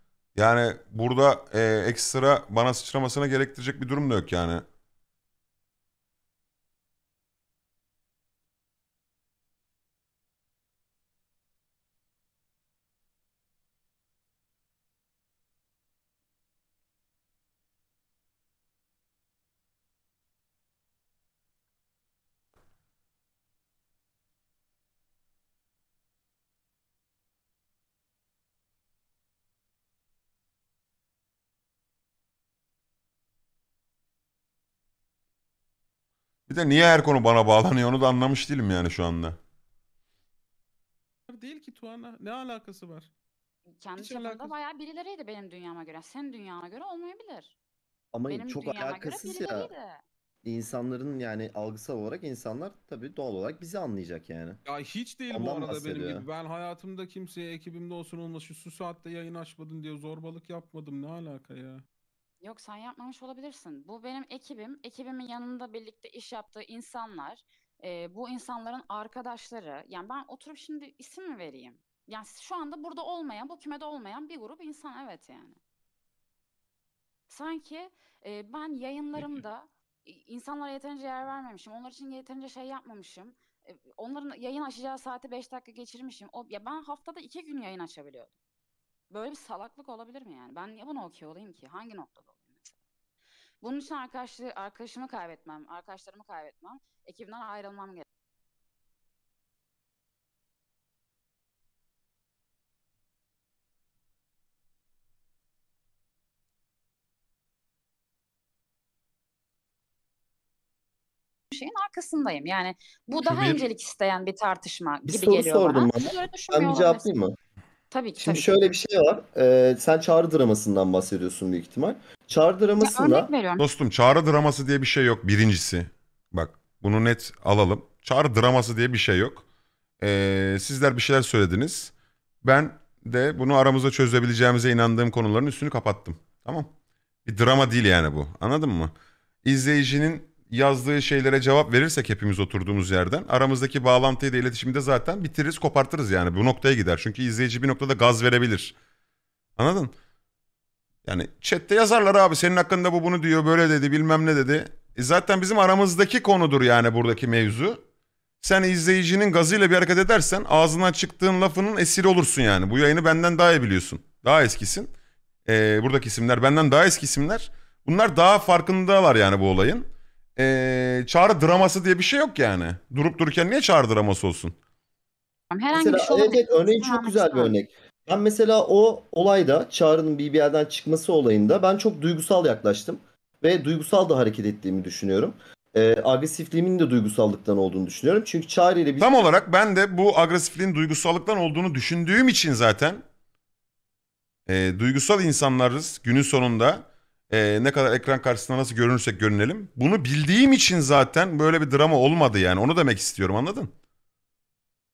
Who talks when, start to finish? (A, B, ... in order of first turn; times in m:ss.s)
0:00.4-0:04.6 A
0:36.5-0:39.4 A
0:41.3-0:43.1 B
0:43.8-0:47.6 C
0:44.0-0:44.5 B
0:48.1-0:49.7 D
0:48.3-0:50.0 C
0:50.4-0:54.6 D
0:54.6-1:01.8 B
0:55.3-0:56.2 D
1:02.4-1:15.6 C
1:17.3-1:28.4 C
1:29.1-1:32.8 C
1:33.6-1:38.1 C
1:51.5-1:57.1 C
1:55.0-1:57.3 D
1:57.9-1:58.7 C
1:58.2-2:03.3 D
2:02.8-2:03.6 C
2:03.6-2:09.4 A
2:10.0-2:11.9 A
2:12.4-2:16.7 A
2:17.2-2:18.9 A
2:19.4-2:28.7 A
2:29.6-2:29.9 A
2:31.0-2:37.8 A
2:38.4-2:44.9 A
2:45.4-2:54.5 A
2:55.5-2:57.6 C
2:55.7-3:09.1 D
3:09.0-3:13.0 A
3:14.5-3:23.7 A